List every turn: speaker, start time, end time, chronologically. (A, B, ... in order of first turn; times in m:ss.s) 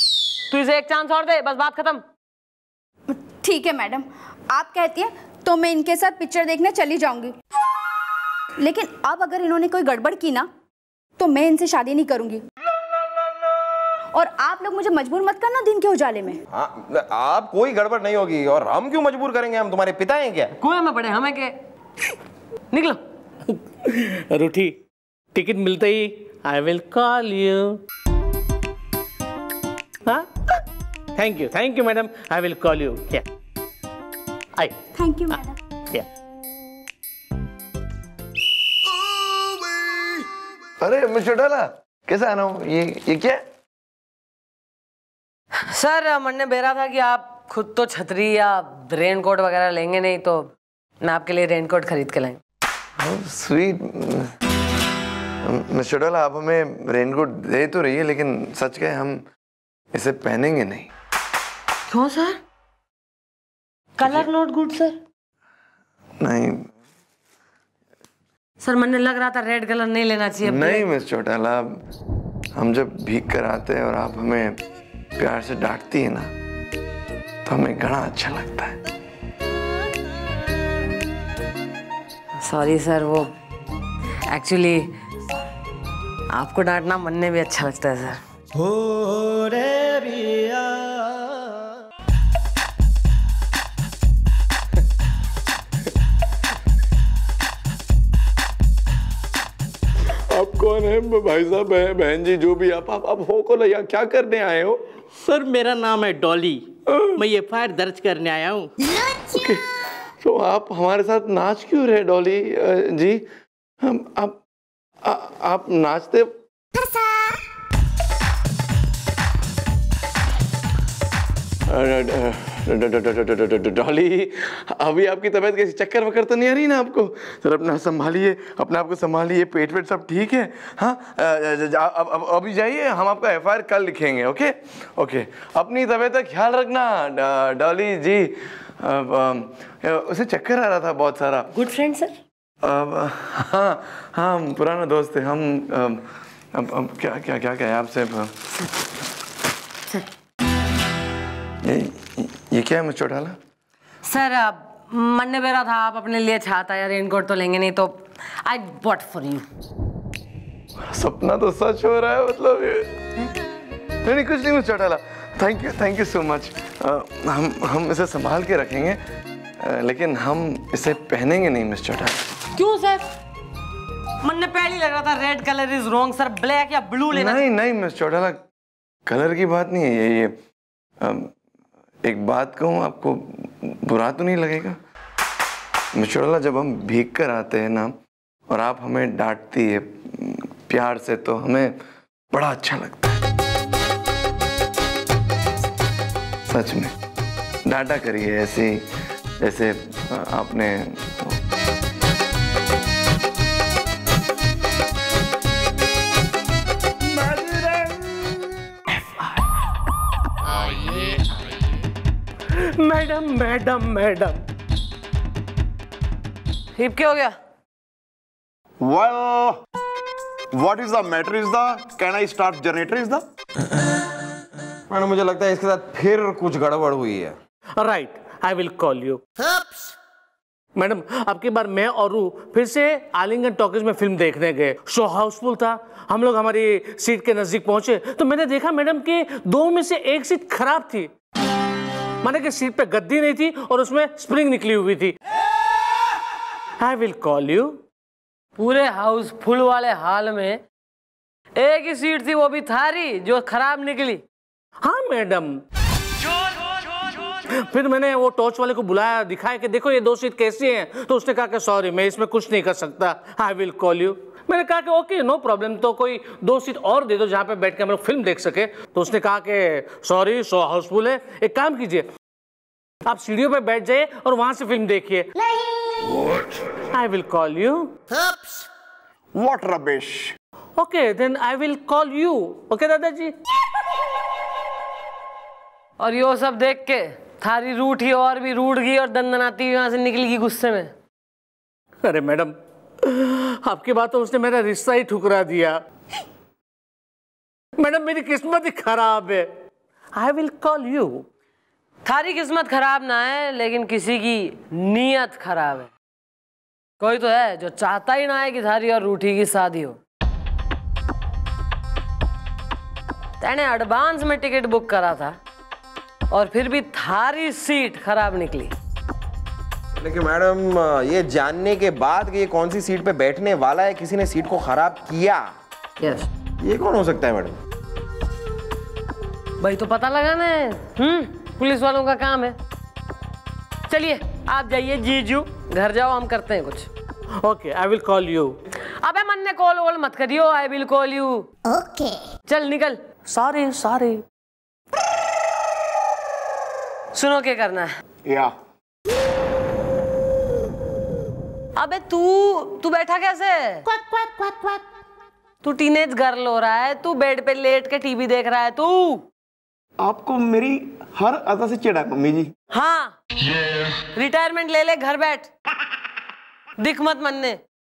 0:00.5-0:02.0 A
0:03.1-0:07.3 B
0:08.6-0:10.4 B
0:11.2-0:12.4 B
0:14.1-0:16.4 B
0:16.5-0:20.5 C
0:20.6-0:21.5 A
0:22.7-0:23.0 A
0:23.5-0:24.8 D
0:25.3-0:27.8 D
0:31.2-0:33.2 D
0:35.0-0:35.5 B
0:40.8-0:43.4 E
0:45.6-0:50.5 A
0:51.0-0:52.4 A
0:53.0-0:54.3 E
0:55.4-0:59.2 E
0:59.9-1:00.9 E
1:01.9-1:02.4 A
1:04.0-1:05.0 A
1:06.2-1:06.6 E
1:08.6-1:10.8 A
1:10.4-1:11.8 E
1:12.5-1:14.6 E
1:15.2-1:16.3 E
1:17.4-1:18.8 E
1:22.4-1:23.3 A
1:24.3-1:24.9 A
1:26.3-1:28.2 A
1:40.3-1:44.8 E
1:45.2-1:48.7 F
1:46.9-1:47.2 E
1:49.3-1:49.6 E
1:50.2-1:53.2 E
1:53.8-1:54.4 E
1:55.0-1:56.3 E
2:01.7-2:21.5 E
2:21.5-2:22.1 A
2:22.6-2:26.0 E
2:26.5-2:28.3 E
2:31.6-2:33.4 E
2:34.0-2:39.4 A
2:40.9-2:42.9 E
2:44.0-2:49.0 E
2:49.6-2:52.2 E
2:52.5-2:53.0 A
2:54.2-2:57.4 A
2:57.1-2:58.4 E
2:59.0-3:00.3 E
3:01.0-3:01.3 E
3:02.0-3:04.8 E
3:06.0-3:07.9 E
3:08.5-3:11.7 E
3:12.3-3:13.2 E
3:16.5-3:16.9 E
3:17.6-3:18.8 E
3:19.4-3:21.4 E
3:32.5-3:34.4 D
3:36.8-3:37.3 A
3:38.8-3:39.6 G
3:40.6-3:43.2 G
3:44.9-3:47.4 C
3:47.8-3:49.2 D
3:50.8-4:01.1 D
4:02.2-4:05.2 D
4:06.8-4:07.8 D
4:08.6-4:10.6 A
4:11.6-4:14.2 A
4:14.8-4:15.6 D
4:17.6-4:32.0 D
4:33.0-4:35.3 D
4:36.7-4:37.9 D
4:39.3-4:40.3 G
4:40.8-4:43.3 D
4:46.0-4:50.9 A
4:52.0-4:55.8 D
4:57.8-4:59.5 D
5:00.1-5:01.2 D
5:02.0-5:05.9 A
5:07.0-5:10.0 A
5:13.4-5:15.4 A
5:16.3-5:18.7 A
5:20.0-5:25.5 C
5:26.0-5:26.3 A
5:26.6-5:27.6 C
5:29.6-5:32.6 A
5:33.9-5:36.9 A
5:37.4-5:38.6 D
5:39.0-5:41.5 A
5:42.5-5:43.0 A
5:43.3-5:44.2 D
5:47.1-5:47.9 A
5:48.2-5:48.5 G
5:51.8-5:53.8 A
5:55.6-5:59.2 A
6:00.0-6:02.5 G
6:02.7-6:03.2 A
6:04.1-6:05.5 A
6:06.8-6:07.6 A